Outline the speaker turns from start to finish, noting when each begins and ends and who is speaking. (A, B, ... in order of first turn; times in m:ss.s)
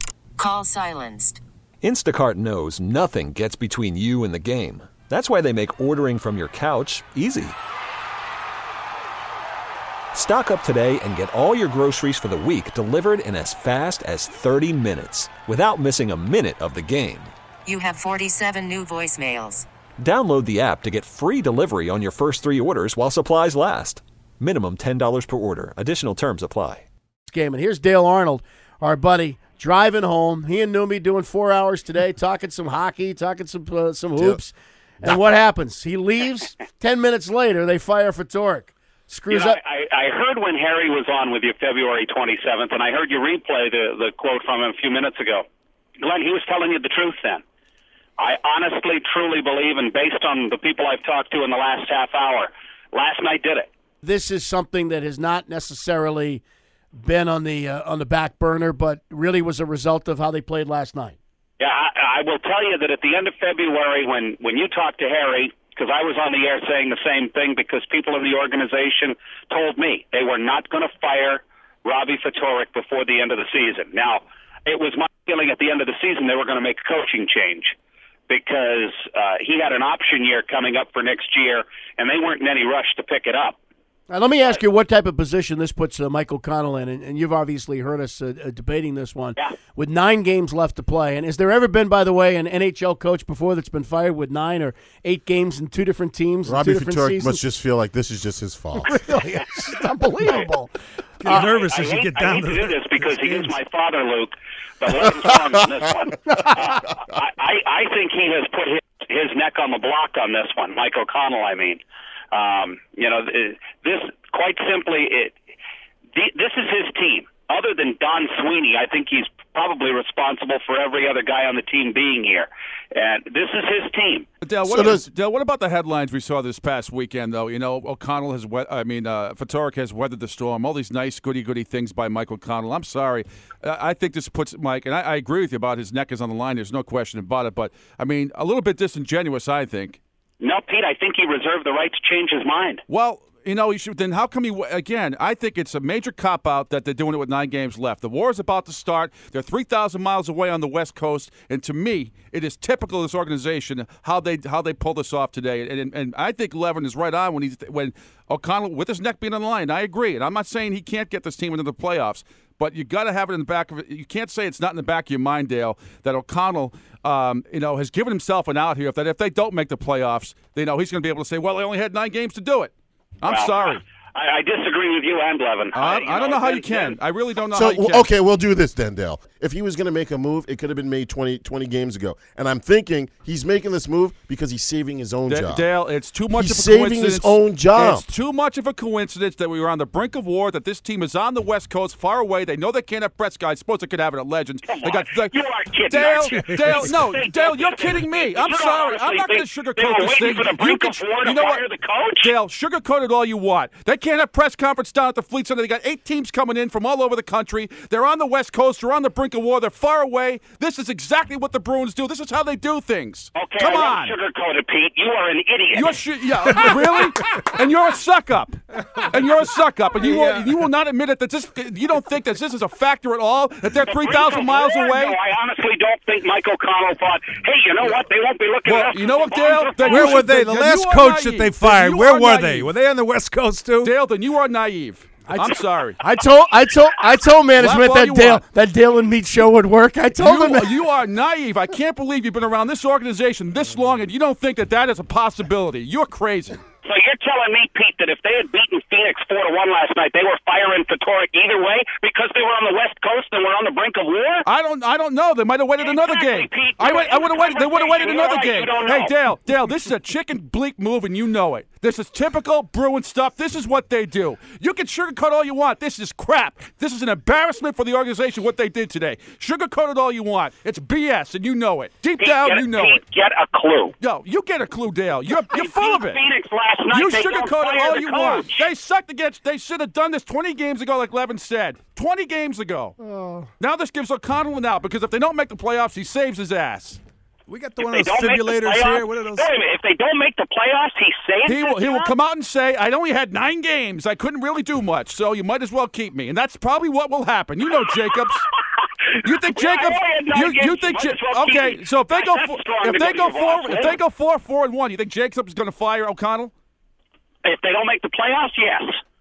0:00.4-0:01.4 A
0:01.8-0:07.6 B
0:10.1-0:17.3 B
0:17.7-0:19.7 A
0:20.0-0:26.8 B
0:27.3-0:39.6 C
0:39.3-0:45.4 D
0:46.0-0:47.4 D
0:48.2-0:53.7 D
0:54.0-0:56.4 C
0:57.0-1:01.2 C
1:01.6-1:17.7 D
1:18.3-1:23.6 D
1:24.1-1:37.4 C
1:36.5-1:39.0 E
1:38.8-1:40.7 C
1:41.2-1:43.6 F
1:41.3-1:51.8 D
1:52.3-1:55.4 D
1:56.2-2:04.3 D
2:04.4-2:20.0 G
2:04.6-2:05.1 E
2:20.4-2:22.8 D
2:22.9-2:53.8 G
2:53.3-2:57.0 D
2:55.7-2:58.1 G
2:57.5-3:05.7 E
3:05.3-3:21.6 G
3:06.3-3:08.1 E
3:14.7-3:22.3 D
3:16.5-3:16.9 F
3:22.2-3:34.2 G
3:33.4-3:36.0 D
3:35.7-3:45.2 G
3:43.9-3:50.3 D
3:48.6-3:52.7 G
3:49.9-3:53.9 F
3:53.8-3:56.0 G
3:55.3-4:00.7 C
3:57.6-3:58.4 G
4:00.2-4:06.6 G
4:06.8-4:14.5 D
4:14.4-4:33.0 G
4:15.8-4:19.1 D
4:32.2-4:33.9 D
4:34.0-4:36.2 G
4:35.5-4:38.7 D
4:36.9-4:43.0 G
4:43.0-4:43.5 C
4:43.6-4:47.0 G
4:47.5-4:49.5 F
4:47.8-4:52.1 D
4:51.4-4:58.5 G
4:59.2-5:06.5 G
4:59.5-5:04.0 D
5:07.4-5:09.0 D